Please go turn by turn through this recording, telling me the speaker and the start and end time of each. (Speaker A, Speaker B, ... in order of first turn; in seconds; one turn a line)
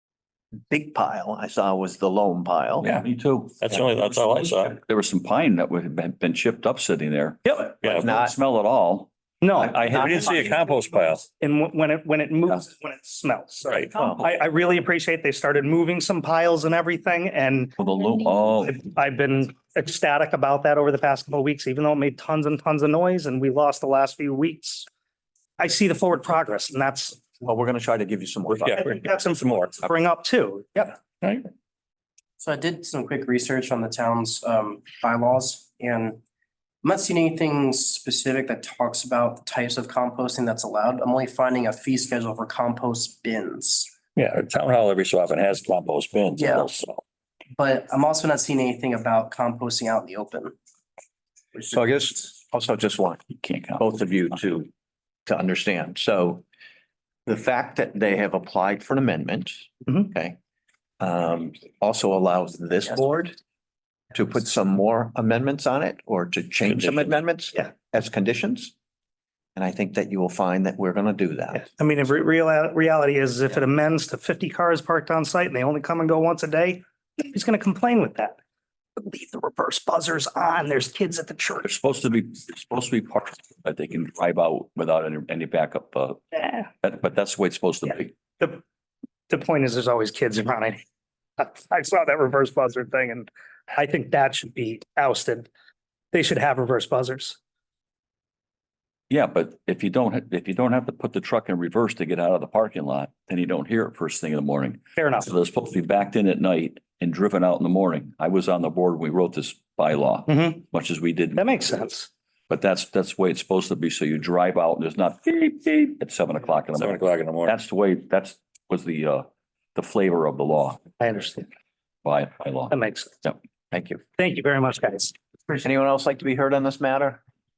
Speaker A: 0.7-2.9
Speaker B: 2.9-9.1
Speaker C: 3.6-4.8
Speaker C: 7.8-8.1
Speaker A: 7.8-8.3
Speaker D: 9.4-10.2
Speaker C: 9.6-11.2
Speaker B: 9.7-10.0
Speaker A: 9.9-10.6
Speaker D: 11.4-17.8
Speaker C: 13.7-13.9
Speaker A: 13.9-14.3
Speaker B: 17.8-18.8
Speaker D: 18.6-24.9
Speaker D: 25.6-27.2
Speaker A: 27.4-28.7
Speaker C: 28.5-29.7
Speaker D: 28.6-31.0
Speaker E: 32.4-36.2
Speaker E: 36.8-43.9
Speaker C: 44.1-47.0
Speaker E: 46.4-46.7
Speaker E: 47.5-50.5
Speaker A: 51.7-53.2
Speaker B: 53.4-53.8
Speaker A: 53.8-54.7
Speaker A: 55.2-56.4
Speaker A: 57.2-60.4
Speaker A: 61.0-63.4
Speaker A: 64.1-68.7
Speaker A: 69.5-71.6
Speaker D: 71.5-78.4
Speaker D: 79.0-81.7
Speaker B: 81.6-88.1
Speaker D: 89.3-90.8
Speaker D: 91.4-95.5
Speaker D: 96.1-97.4
Speaker B: 99.1-111.7
Speaker D: 105.0-105.3
Speaker D: 110.3-110.6
Speaker D: 111.3-112.1
Speaker B: 112.5-120.8
Speaker C: 116.7-117.5
Speaker D: 121.0-121.5
Speaker B: 122.0-123.4
Speaker D: 122.7-123.1
Speaker A: 123.7-124.0
Speaker D: 124.2-125.1
Speaker A: 125.6-127.2